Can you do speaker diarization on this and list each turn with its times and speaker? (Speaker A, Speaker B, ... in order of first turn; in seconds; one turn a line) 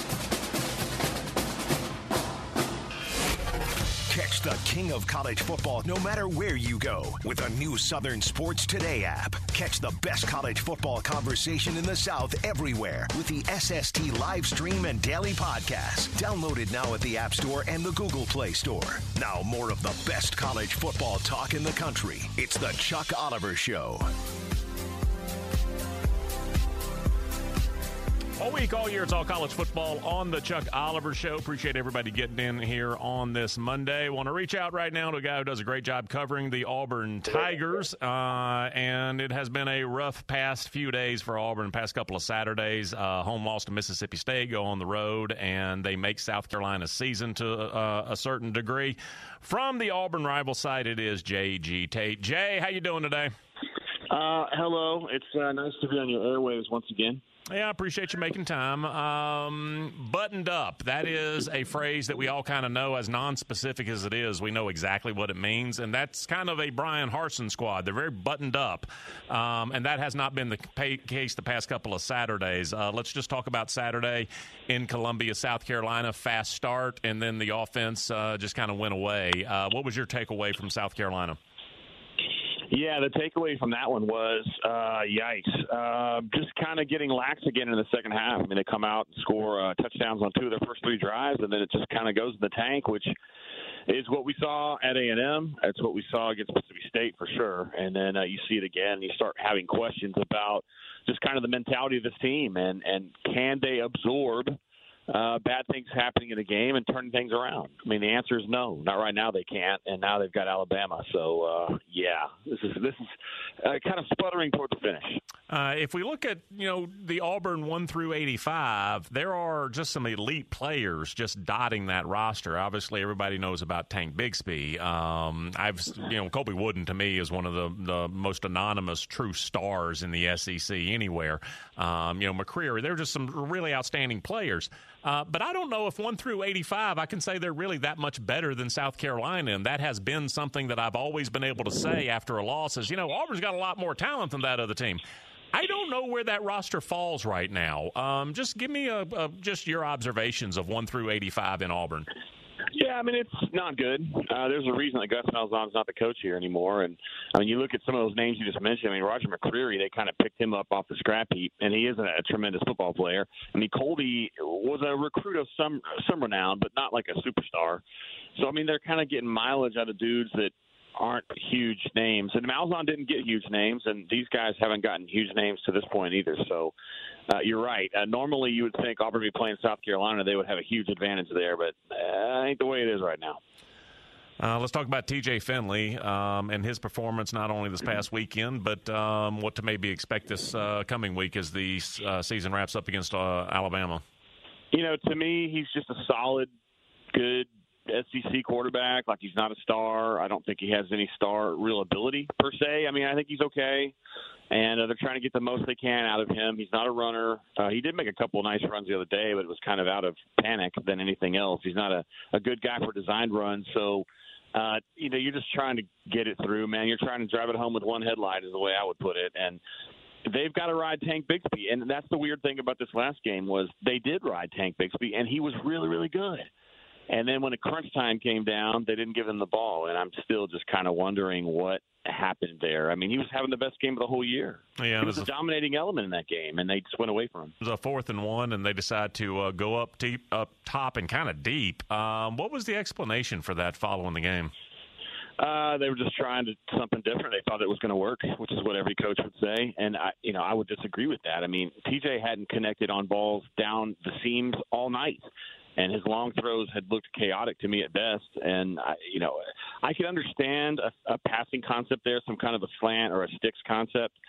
Speaker A: 4.1-24.1
Speaker B: 28.4-53.3
Speaker C: 54.1-57.2
Speaker B: 57.5-81.4
Speaker C: 82.7-93.1
Speaker C: 93.9-104.6
Speaker C: 105.1-115.2
Speaker B: 115.5-145.0
Speaker B: 145.5-152.1
Speaker C: 152.7-167.8
Speaker C: 168.3-176.7
Speaker C: 177.3-183.4
Speaker B: 184.4-194.0
Speaker C: 194.7-196.5
Speaker C: 197.1-203.9
Speaker C: 204.5-219.6
Speaker C: 220.2-226.5
Speaker C: 227.1-237.5
Speaker B: 234.8-235.3
Speaker B: 237.6-244.5
Speaker C: 245.4-264.1